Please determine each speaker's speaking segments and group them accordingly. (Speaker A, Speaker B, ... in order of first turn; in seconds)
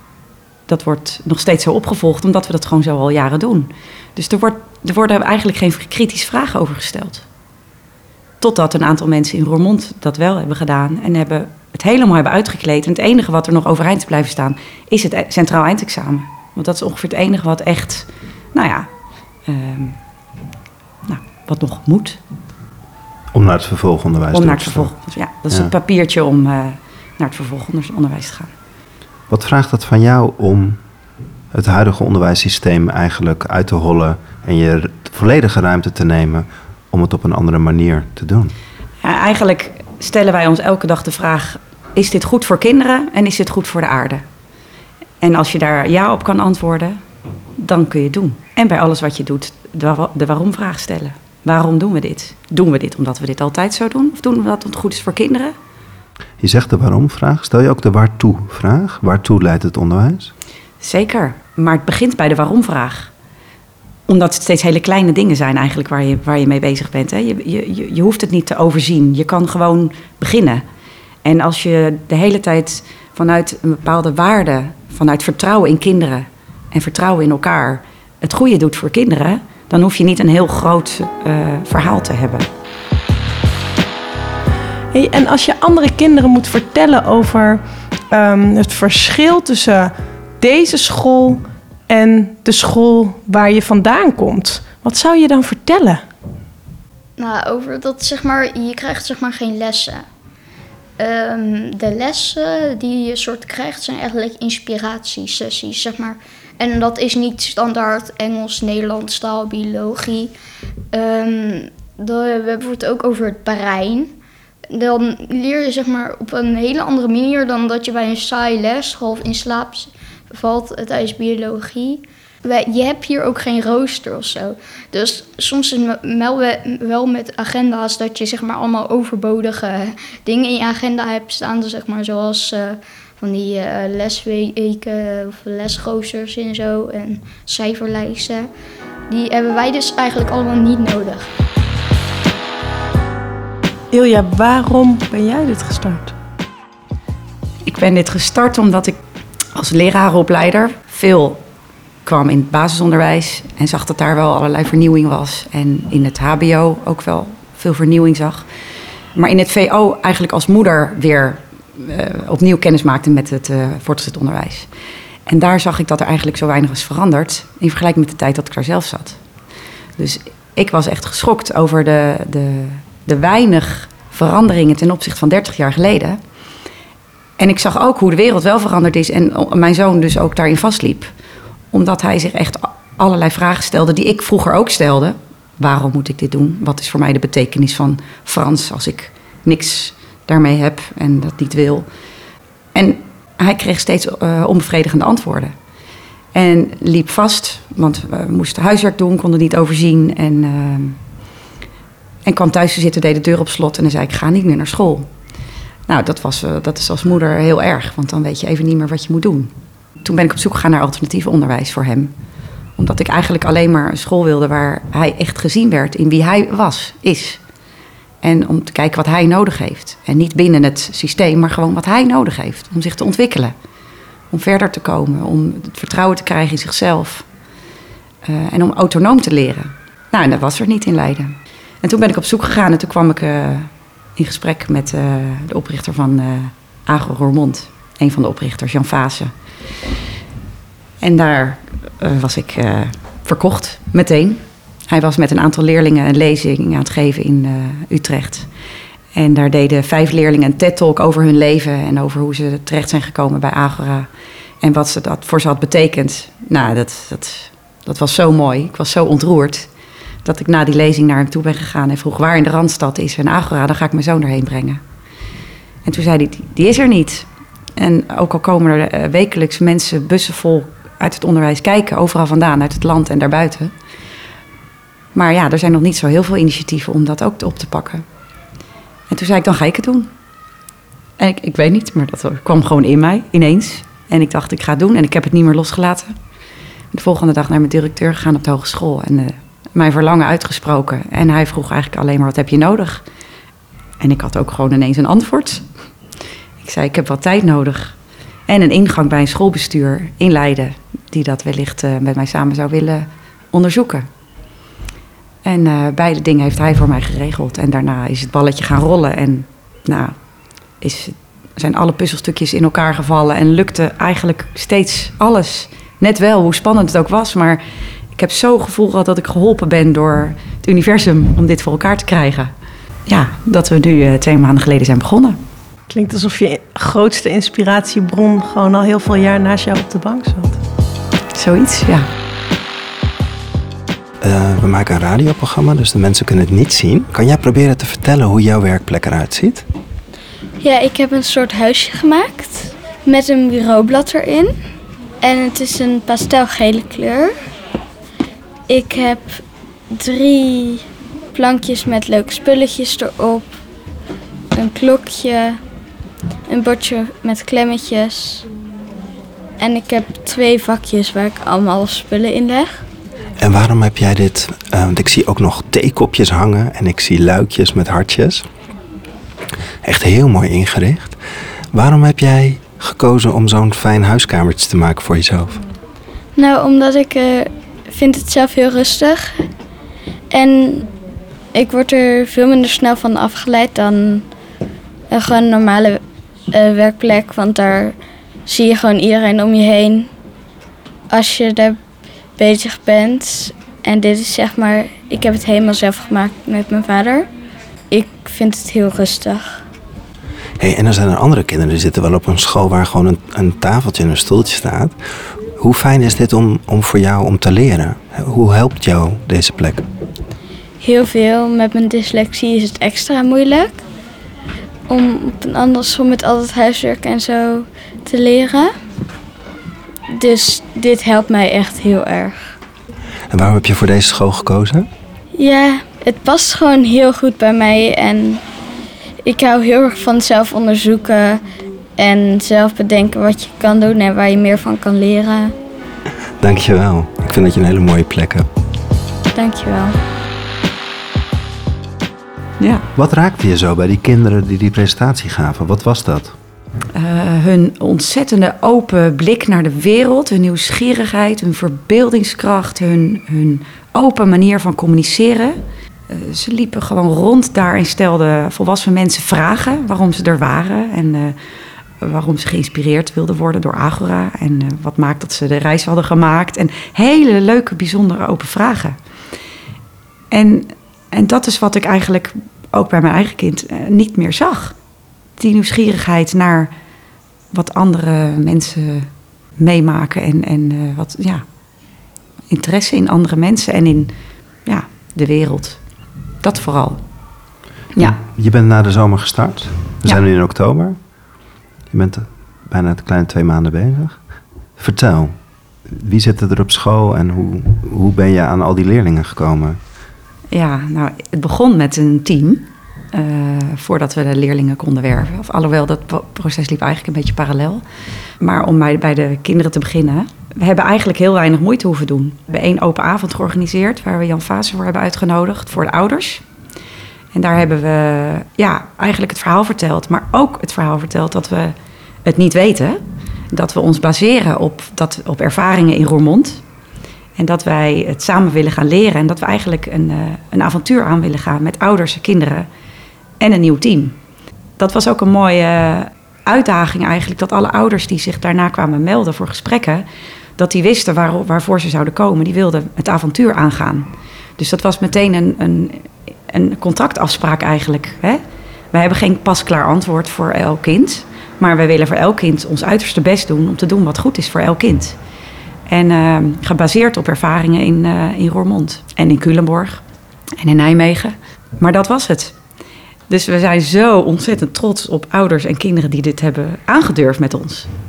Speaker A: 0.7-7.2, 8.4-18.9, 19.5-20.0, 21.1-22.2, 24.3-28.5, 39.0-44.2, 45.2-47.0, 47.6-55.5, 60.8-63.1, 64.1-70.6, 71.2-82.5, 147.7-149.0, 149.6-151.4, 152.1-158.5, 159.2-164.7, 165.3-169.2, 170.0-176.2, 177.4-181.1, 181.7-191.9, 192.7-195.5, 196.3-201.0, 202.2-205.1, 205.9-209.5, 210.0-212.1, 212.8-217.4, 218.2-223.5, 224.3-227.3, 228.2-239.3, 241.0-248.5, 249.1-254.1, 254.6-259.7, 260.2-264.8, 265.9-273.7, 275.1-278.1, 279.1-280.1, 281.2-286.1, 286.9-293.0, 294.0-295.7, 296.6-298.0, 298.5-304.1, 305.4-310.2, 310.8-317.6, 318.1-322.5, 323.1-325.4, 331.3-332.1, 442.6-442.9, 446.9-461.4, 462.0-469.0, 470.3-474.8, 475.4-476.7, 477.5-481.4, 482.5-484.1, 484.7-485.8, 486.4-487.0, 500.5-507.8, 508.4-516.4, 517.3-526.6, 527.4-532.7, 533.4-534.2, 534.8-540.0, 540.6-548.4, 548.9-555.2, 555.9-560.0, 560.6-562.6, 563.3-567.9
Speaker B: 23.3-24.9, 29.3-30.8, 31.5-38.5, 56.4-60.3, 334.2-339.6, 363.4-368.5, 369.8-371.2, 371.7-375.6, 400.6-404.9, 405.6-409.9, 423.3-424.9, 436.4-438.5, 442.9-446.4, 488.0-491.0, 491.9-494.2, 494.8-495.4, 495.9-499.8
Speaker C: 84.9-96.0, 143.9-146.2, 325.9-330.6
Speaker D: 97.2-100.1, 101.0-110.3, 110.9-114.1, 114.7-138.5, 139.1-141.3
Speaker E: 340.6-344.6, 345.2-347.3, 348.7-353.5, 354.6-355.6, 356.5-358.5, 359.6-362.8, 376.4-379.5, 380.3-380.9, 381.5-384.2, 385.1-390.1, 391.1-391.8, 392.4-397.3, 397.9-399.6, 410.8-413.8, 414.9-418.7, 420.1-422.5, 425.4-428.4, 429.2-431.4, 432.0-435.5, 439.3-440.0